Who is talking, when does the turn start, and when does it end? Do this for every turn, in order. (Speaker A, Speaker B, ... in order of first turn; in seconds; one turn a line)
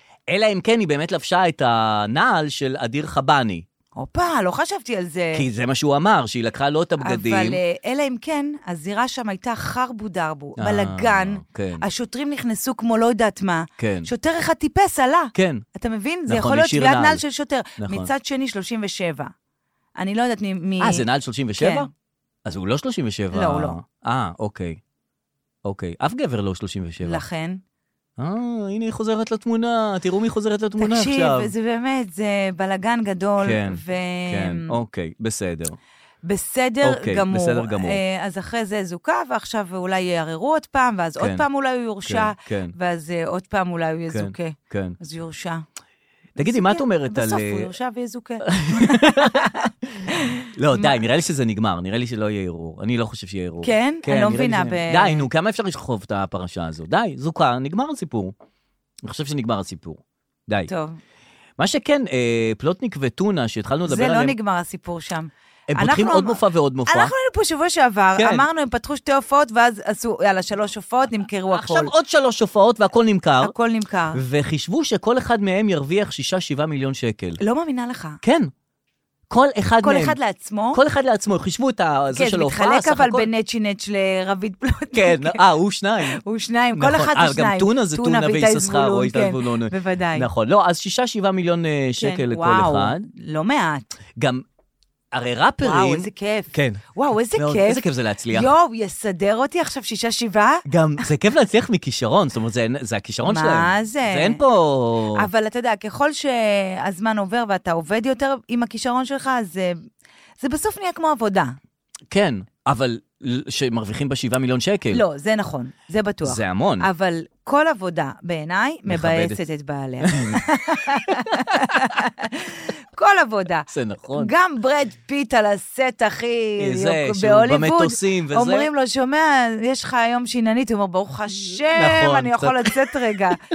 Speaker A: 0.3-3.6
Speaker B: 4.0-5.4
Speaker A: 5.3-7.6
Speaker B: 7.0-19.3
Speaker A: 10.6-11.8
Speaker A: 13.8-14.1
Speaker A: 15.3-15.6
Speaker A: 16.3-17.2
Speaker A: 17.8-18.1
Speaker B: 20.0-21.0
Speaker A: 20.8-21.9
Speaker B: 21.6-21.9
Speaker A: 22.4-24.8
Speaker B: 23.3-23.8
Speaker A: 25.6-27.2
Speaker B: 27.0-27.6
Speaker A: 28.2-31.5
Speaker B: 30.8-34.7
Speaker A: 33.4-35.8
Speaker B: 36.2-45.6
Speaker A: 36.8-38.0
Speaker A: 41.2-41.4
Speaker A: 42.0-42.7
Speaker A: 44.1-45.0
Speaker A: 46.4-47.7
Speaker B: 46.4-51.0
Speaker A: 48.4-58.3
Speaker B: 53.6-55.2
Speaker A: 59.0-60.7
Speaker B: 60.7-61.0
Speaker A: 61.6-64.3
Speaker B: 63.9-71.9
Speaker A: 65.7-67.1
Speaker A: 68.2-68.5
Speaker A: 71.5-73.5
Speaker B: 73.4-74.2
Speaker A: 74.1-77.4
Speaker B: 77.4-78.2
Speaker A: 78.2-78.5
Speaker A: 79.3-80.2
Speaker B: 79.8-80.8
Speaker A: 80.7-83.3
Speaker B: 82.1-85.4
Speaker A: 84.9-86.2
Speaker B: 86.1-90.3
Speaker A: 86.8-93.0
Speaker B: 92.0-93.9
Speaker A: 94.2-94.4
Speaker A: 95.1-98.5
Speaker B: 95.6-97.8
Speaker B: 98.3-100.6
Speaker A: 100.7-105.3
Speaker B: 103.2-104.4
Speaker B: 105.2-109.8
Speaker B: 110.4-111.5
Speaker A: 112.1-115.0
Speaker B: 114.9-133.4
Speaker A: 116.2-116.9
Speaker A: 118.9-119.4
Speaker A: 120.0-120.4
Speaker A: 121.1-121.5
Speaker A: 123.7-124.3
Speaker A: 126.6-128.7
Speaker A: 131.7-132.7